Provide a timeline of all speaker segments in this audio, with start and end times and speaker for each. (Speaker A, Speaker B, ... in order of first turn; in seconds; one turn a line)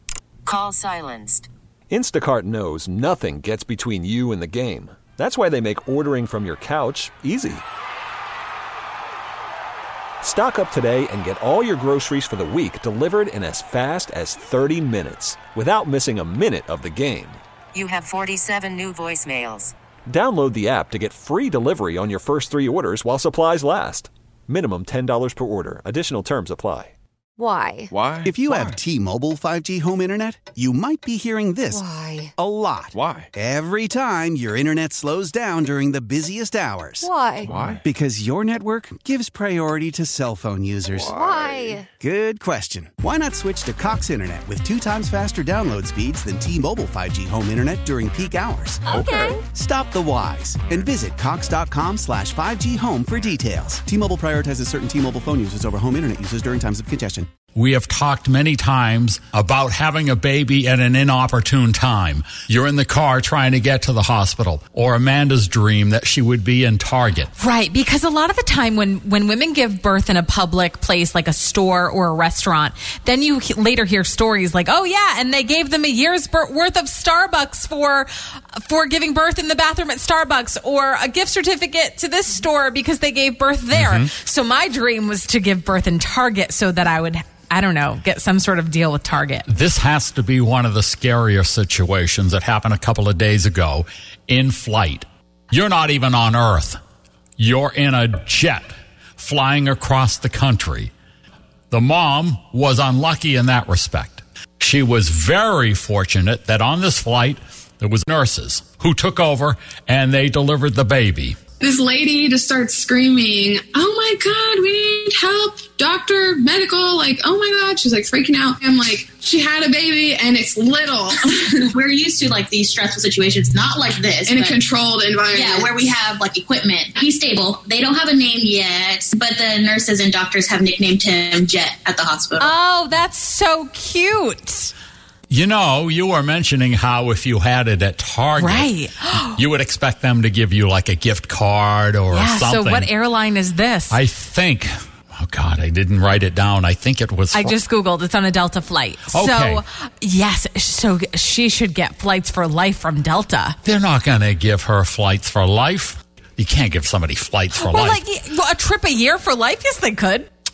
Speaker A: 0.5-1.5
Speaker B: 1.9-7.6
Speaker B: 10.2-17.4
Speaker A: 17.7-19.7
Speaker B: 20.1-26.9
Speaker C: 27.4-27.9
Speaker D: 27.9-28.7
Speaker E: 28.2-37.1
Speaker C: 31.7-32.3
Speaker D: 33.0-33.3
Speaker C: 37.0-37.6
Speaker D: 37.5-37.8
Speaker E: 37.6-41.2
Speaker D: 41.0-41.6
Speaker C: 41.1-41.9
Speaker B: 41.3-41.7
Speaker E: 42.0-48.9
Speaker C: 48.9-49.4
Speaker D: 49.0-49.2
Speaker B: 49.0-49.3
Speaker E: 49.5-57.3
Speaker F: 57.5-67.3
Speaker G: 67.4-89.5
Speaker F: 83.7-84.1
Speaker F: 89.5-96.8
Speaker F: 97.4-100.9
Speaker F: 101.7-111.4
Speaker H: 111.6-121.3
Speaker I: 121.3-124.6
Speaker H: 124.3-125.9
Speaker I: 125.3-132.5
Speaker G: 132.4-134.7
Speaker F: 135.3-142.9
Speaker G: 138.4-139.4
Speaker G: 142.1-144.0
Speaker F: 143.9-147.6
Speaker G: 147.3-153.6
Speaker F: 149.1-149.6
Speaker F: 153.6-158.0
Speaker G: 157.6-160.3